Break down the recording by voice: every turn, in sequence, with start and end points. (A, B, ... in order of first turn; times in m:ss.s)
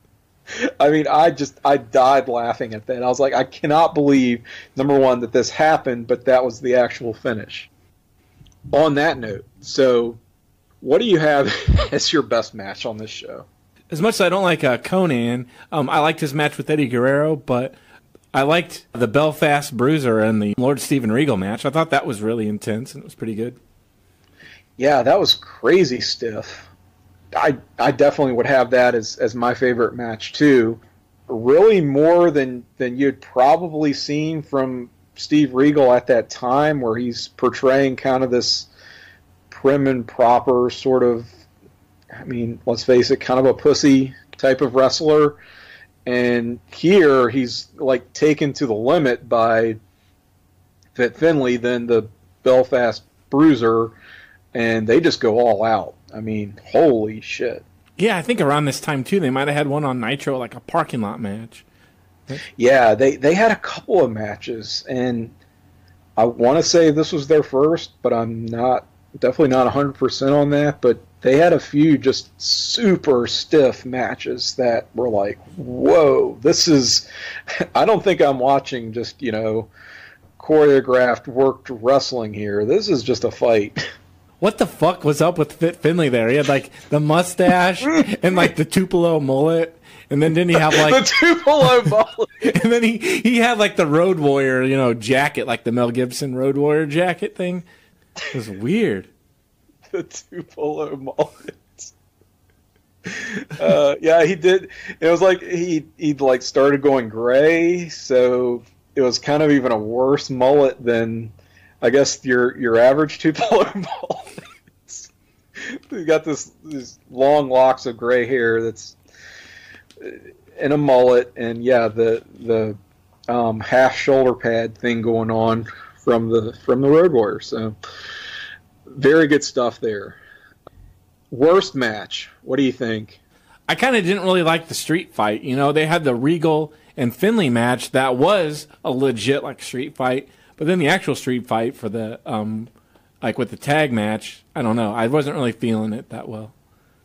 0:00.5-0:07.7 A
0:08.7-0:10.2 A
0:10.8-0:13.4 A
0:13.9-0:17.8 B
0:18.3-0:23.6 B
0:24.8-0:26.7 A
0:27.3-0:38.7 A
0:39.5-0:41.3 A
0:42.2-0:45.4 A
0:46.0-0:49.8 A
0:50.9-0:53.9 A
0:54.5-0:57.6 A
0:58.0-1:01.6 B
1:02.6-1:05.3 A
1:06.2-1:17.0 A
1:17.7-1:19.7 A
1:20.4-1:23.8 A
1:24.4-1:31.1 B
1:30.5-1:32.5 A
1:32.4-1:37.6 B
1:38.3-1:39.1 B
1:39.9-1:41.9 A
1:43.0-1:54.3 A
1:54.9-1:59.0 A
2:00.0-2:02.8 A
2:03.3-2:07.7 A
2:08.9-2:10.2 A
2:11.3-2:13.2 A
2:13.7-2:22.7 B
2:23.2-2:26.5 B